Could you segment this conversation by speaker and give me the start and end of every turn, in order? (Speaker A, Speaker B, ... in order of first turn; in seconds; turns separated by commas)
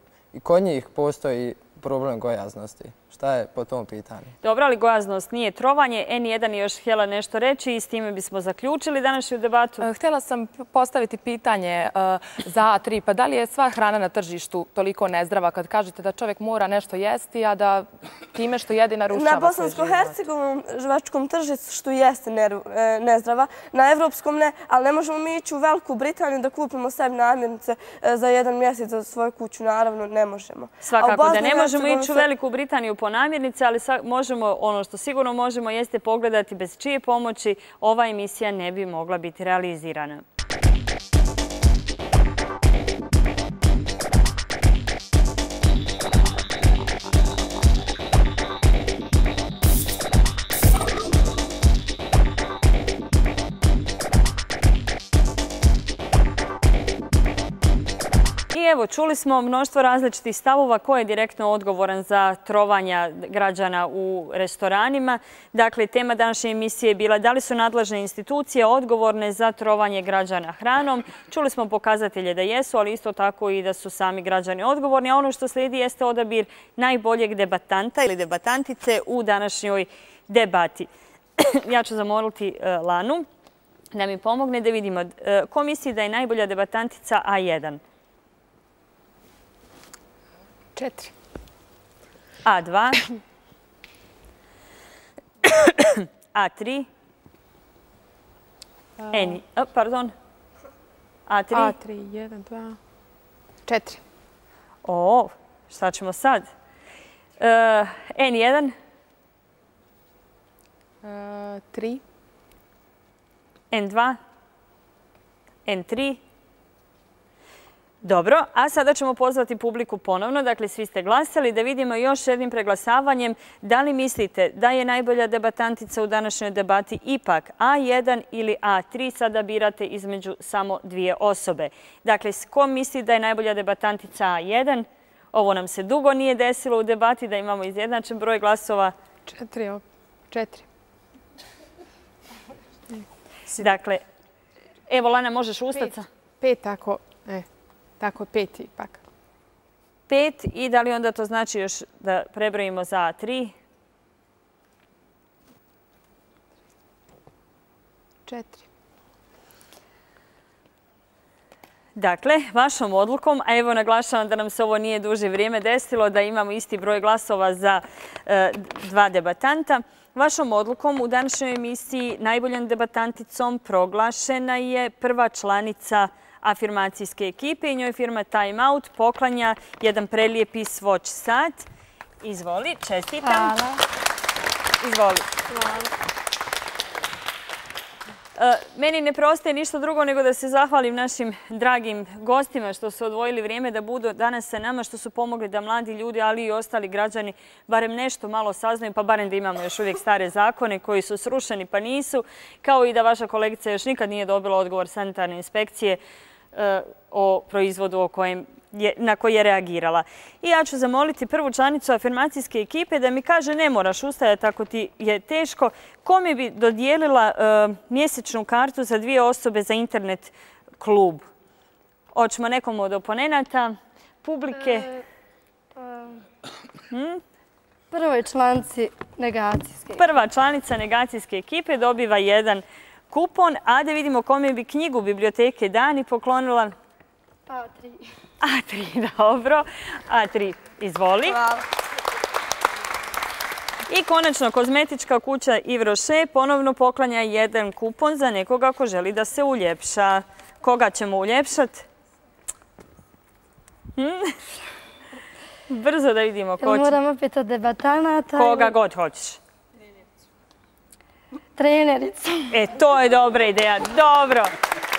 Speaker A: 0.3-4.3, Speaker B: 4.4-9.8, Speaker C: 9.8-20.1, Speaker D: 19.1-32.3, Speaker B: 30.8-40.2, Speaker B: 58.5-83.2, Speaker B: 83.9-87.8, Speaker E: 90.7-91.1, Speaker B: 92.4-93.1, Speaker B: 95.6-96.9, Speaker E: 99.0-99.4, Speaker B: 99.1-100.1, Speaker B: 101.3-101.8, Speaker E: 101.5-102.8, Speaker E: 103.7-104.0, Speaker B: 104.8-106.5, Speaker B: 107.4-108.7, Speaker E: 111.0-112.0, Speaker B: 113.7-114.2, Speaker B: 115.7-116.2, Speaker B: 118.0-138.9, Speaker E: 139.3-140.7, Speaker E: 142.9-143.7, Speaker B: 143.6-144.0, Speaker B: 144.9-146.1, Speaker E: 145.8-147.5, Speaker E: 148.0-149.0, Speaker B: 150.1-153.6, Speaker E: 158.3-158.6, Speaker B: 162.0-181.7, Speaker B: 182.2-183.5, Speaker B: 184.8-185.4, Speaker B: 188.4-206.0, Speaker B: 206.5-221.2, Speaker B: 222.1-224.9, Speaker F: 224.6-225.0, Speaker F: 225.8-226.2, Speaker B: 226.9-227.2, Speaker F: 227.9-230.0, Speaker B: 229.9-236.7, Speaker F: 237.5-238.0, Speaker B: 238.4-241.4, Speaker D: 241.3-241.6, Speaker B: 243.9-251.9, Speaker B: 253.9-254.4, Speaker B: 255.7-256.9, Speaker F: 256.6-258.7, Speaker B: 258.4-259.4, Speaker F: 261.6-262.5, Speaker B: 262.5-264.6